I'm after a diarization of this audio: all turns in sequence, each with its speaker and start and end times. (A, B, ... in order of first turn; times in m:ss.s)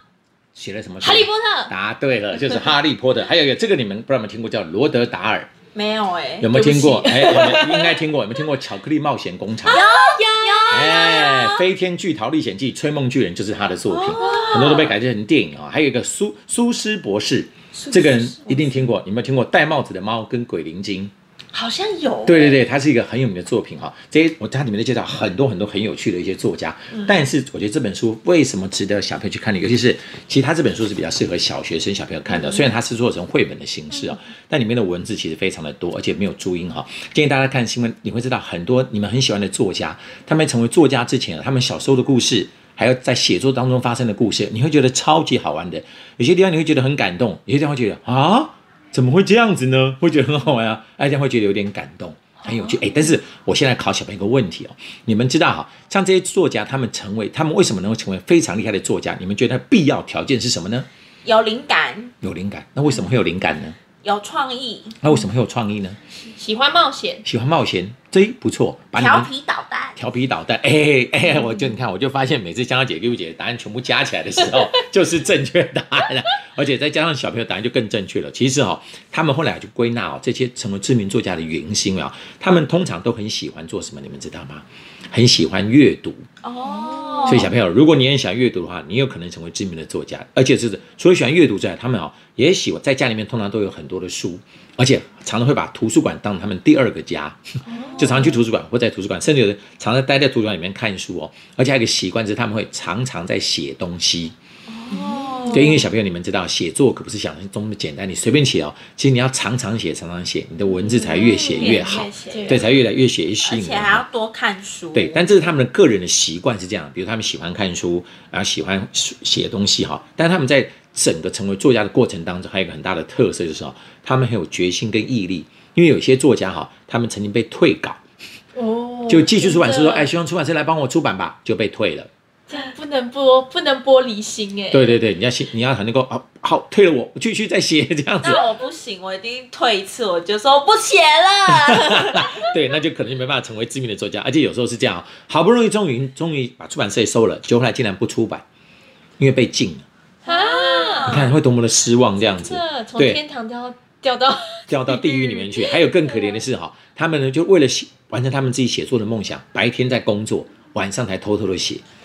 0:00.5-0:05.5 A
0:01.0-0:01.7 B
0:05.7-0:06.5 C
0:06.4-0:09.8 A
0:06.5-0:08.0 B
0:09.7-0:11.6 B
0:09.7-0:10.9 C
0:10.7-0:21.1 A
0:13.9-0:14.8 C
0:14.2-0:14.9 B
0:17.7-0:18.8 B
0:21.8-0:22.6 C
0:22.2-1:00.9 A
0:26.9-0:27.2 C
1:01.2-1:02.1 C
1:02.2-1:03.8 A
1:03.9-1:05.0 C
1:05.0-1:06.0 A
1:06.3-1:07.2 B
1:07.2-1:09.3 A
1:08.9-1:09.9 C
1:09.9-1:26.3 A
1:26.4-1:27.3 C
1:26.6-1:27.5 B
1:27.2-1:37.4 A
1:37.7-1:38.4 B
1:38.0-1:44.3 A
1:44.7-1:45.6 C
1:44.9-1:45.8 B
1:45.5-1:54.0 A
1:50.8-1:52.7 B
1:51.6-1:52.5 C
1:53.4-1:55.3 C
1:54.9-2:08.0 A
2:08.5-2:10.1 B
2:09.1-2:12.1 A
2:12.5-2:14.9 B
2:14.7-2:18.4 A
2:18.2-2:22.4 C
2:21.4-2:28.4 A
2:29.2-2:29.8 A
2:30.2-2:31.2 B
2:30.2-2:31.3 C
2:31.0-2:33.2 A
2:32.2-2:35.8 B
2:34.7-2:41.8 A